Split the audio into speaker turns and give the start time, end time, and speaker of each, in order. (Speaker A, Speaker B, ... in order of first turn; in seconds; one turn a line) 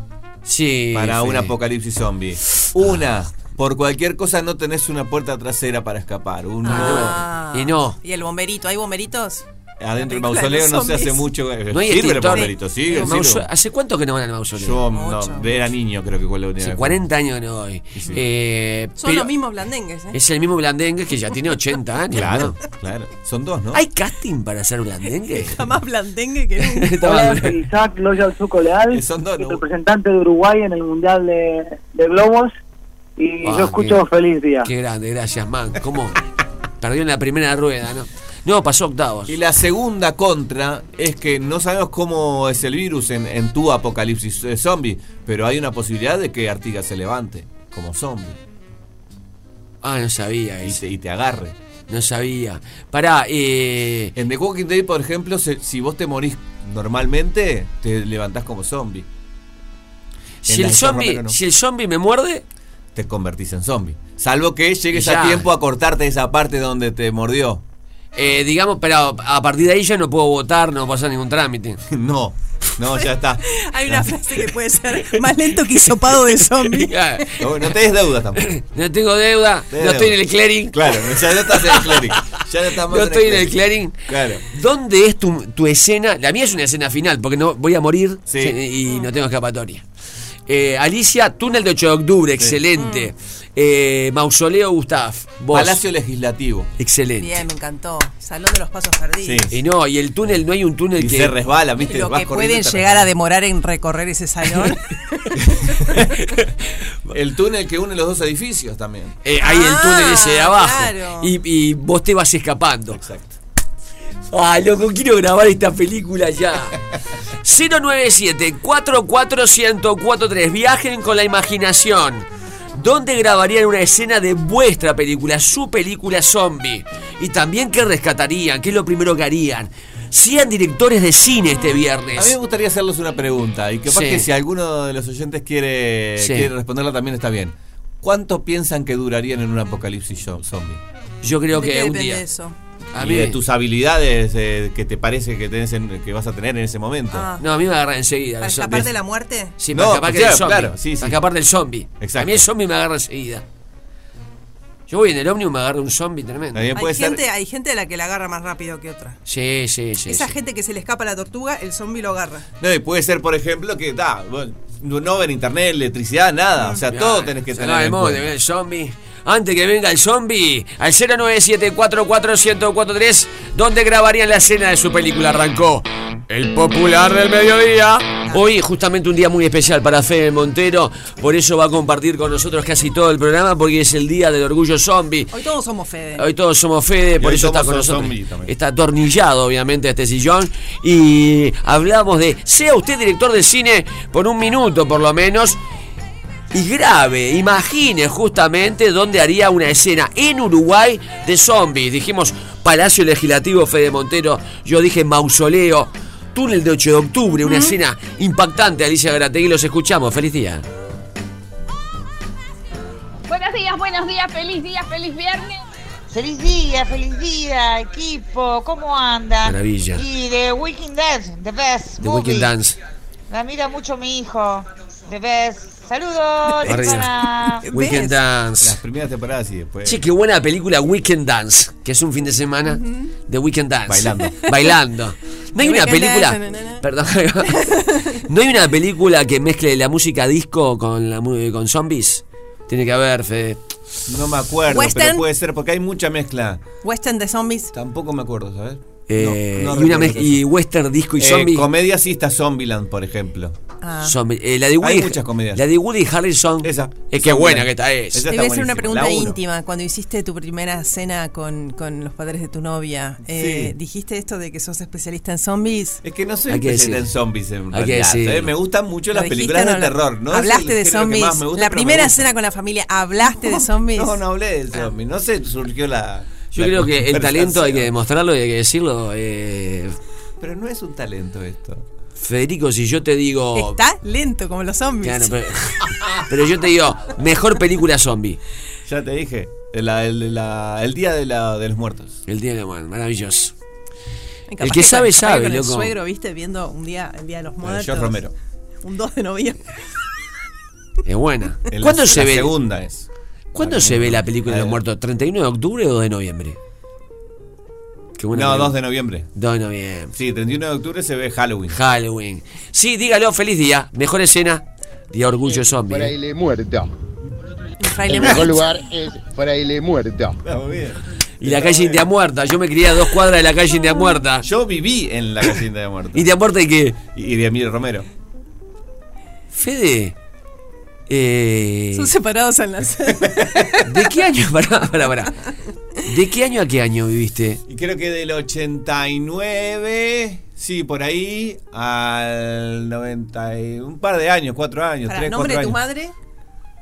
Speaker A: 0.4-1.5
Speaker B: 0.9-7.2
Speaker C: 6.6-9.4
Speaker A: 6.6-8.0
Speaker B: 9.8-13.4
Speaker C: 10.0-11.3
Speaker A: 11.7-14.8
Speaker B: 14.6-17.0
Speaker C: 14.9-15.7
Speaker A: 16.6-19.3
Speaker B: 17.9-18.2
Speaker C: 19.0-20.2
Speaker A: 20.1-22.6
Speaker B: 22.1-23.8
Speaker A: 23.7-25.6
Speaker C: 25.3-27.0
Speaker A: 26.6-27.6
Speaker D: 27.0-32.5
Speaker B: 28.9-29.6
Speaker D: 33.2-34.7
Speaker A: 33.4-34.0
Speaker A: 34.6-36.2
Speaker A: 36.8-39.4
Speaker B: 39.3-48.4
Speaker A: 49.8-50.8
Speaker B: 50.6-51.5
Speaker A: 51.9-54.1
Speaker B: 54.1-59.1
Speaker B: 60.5-61.4
Speaker A: 60.5-62.4
Speaker B: 62.9-67.6
Speaker A: 64.9-65.5
Speaker A: 68.2-71.8
Speaker B: 71.9-74.1
Speaker C: 73.5-76.9
Speaker A: 76.8-77.4
Speaker B: 77.4-78.4
Speaker A: 78.4-80.8
Speaker B: 79.7-80.2
Speaker B: 80.7-84.4
Speaker A: 81.7-82.0
Speaker A: 82.9-89.8
Speaker B: 88.3-88.5
Speaker A: 90.5-95.8
Speaker C: 92.8-93.1
Speaker B: 95.5-96.7
Speaker A: 96.8-97.4
Speaker C: 97.2-99.5
Speaker B: 99.2-99.5
Speaker A: 99.5-101.3
Speaker B: 101.0-103.1
Speaker C: 101.8-105.2
Speaker B: 105.7-106.1
Speaker B: 107.1-109.1
Speaker A: 109.2-113.0
Speaker C: 109.4-111.3
Speaker B: 112.9-113.3
Speaker A: 114.3-116.8
Speaker A: 117.4-132.3
Speaker B: 132.2-140.8
Speaker A: 133.9-134.2
Speaker A: 136.2-136.5
Speaker A: 141.2-142.2
Speaker C: 141.5-142.5
Speaker A: 142.9-143.4
Speaker B: 143.0-147.3
Speaker C: 147.1-147.4
Speaker A: 147.4-148.9
Speaker C: 148.4-149.6
Speaker A: 149.6-153.4
Speaker B: 149.7-151.2
Speaker B: 152.0-152.4
Speaker A: 154.9-156.7
Speaker B: 156.5-157.2
Speaker C: 156.7-159.2
Speaker A: 159.2-160.3
Speaker C: 160.1-162.5
Speaker B: 162.6-168.2
Speaker A: 166.9-185.3
Speaker C: 185.3-186.2
Speaker A: 186.2-195.6
Speaker B: 187.2-188.5
Speaker A: 196.5-210.6
Speaker C: 207.4-207.7
Speaker E: 213.3-215.6
Speaker F: 216.1-222.5
Speaker A: 219.4-220.0
Speaker A: 222.0-222.8
Speaker F: 223.3-227.6
Speaker C: 226.5-228.2
Speaker A: 226.6-227.1
Speaker A: 227.7-228.8
Speaker B: 228.6-230.0
Speaker A: 229.8-237.5
Speaker C: 232.7-233.1
Speaker B: 233.9-234.4
Speaker C: 235.6-236.8
Speaker C: 237.4-238.2
Speaker A: 238.2-243.6
Speaker B: 244.1-246.6
Speaker C: 244.7-245.2
Speaker C: 246.8-247.7
Speaker B: 247.7-250.4
Speaker A: 249.1-251.7
Speaker B: 251.2-253.5
Speaker C: 253.8-254.1
Speaker A: 254.0-258.2
Speaker B: 254.8-255.6
Speaker B: 256.6-259.4
Speaker C: 258.3-266.0
Speaker B: 263.3-263.7
Speaker B: 266.0-272.2
Speaker A: 266.5-267.1
Speaker A: 267.7-268.5
Speaker C: 269.1-274.2
Speaker B: 273.9-277.9
Speaker A: 276.5-279.9
Speaker B: 280.4-281.8
Speaker A: 282.2-283.8
Speaker C: 283.5-285.4
Speaker A: 285.0-288.4
Speaker B: 288.9-292.2
Speaker A: 292.3-293.5
Speaker C: 294.5-298.2
Speaker A: 294.6-295.9
Speaker B: 297.6-298.3
Speaker C: 298.8-299.6
Speaker A: 301.1-302.5
Speaker B: 301.7-304.8
Speaker A: 303.5-306.6
Speaker A: 308.2-308.8
Speaker B: 308.3-309.3
Speaker A: 309.3-310.1
Speaker B: 310.1-311.8
Speaker A: 311.7-316.1
Speaker G: 315.7-316.9
Speaker C: 317.8-318.7
Speaker G: 318.1-320.4
Speaker B: 320.4-322.1
Speaker A: 321.4-324.4
Speaker B: 324.4-326.3
Speaker A: 326.1-327.0
Speaker B: 327.1-328.1
Speaker A: 329.5-330.1
Speaker A: 331.1-332.1
Speaker C: 331.9-333.9
Speaker A: 333.8-335.3
Speaker A: 336.0-337.6
Speaker B: 337.7-345.8
Speaker C: 345.1-346.1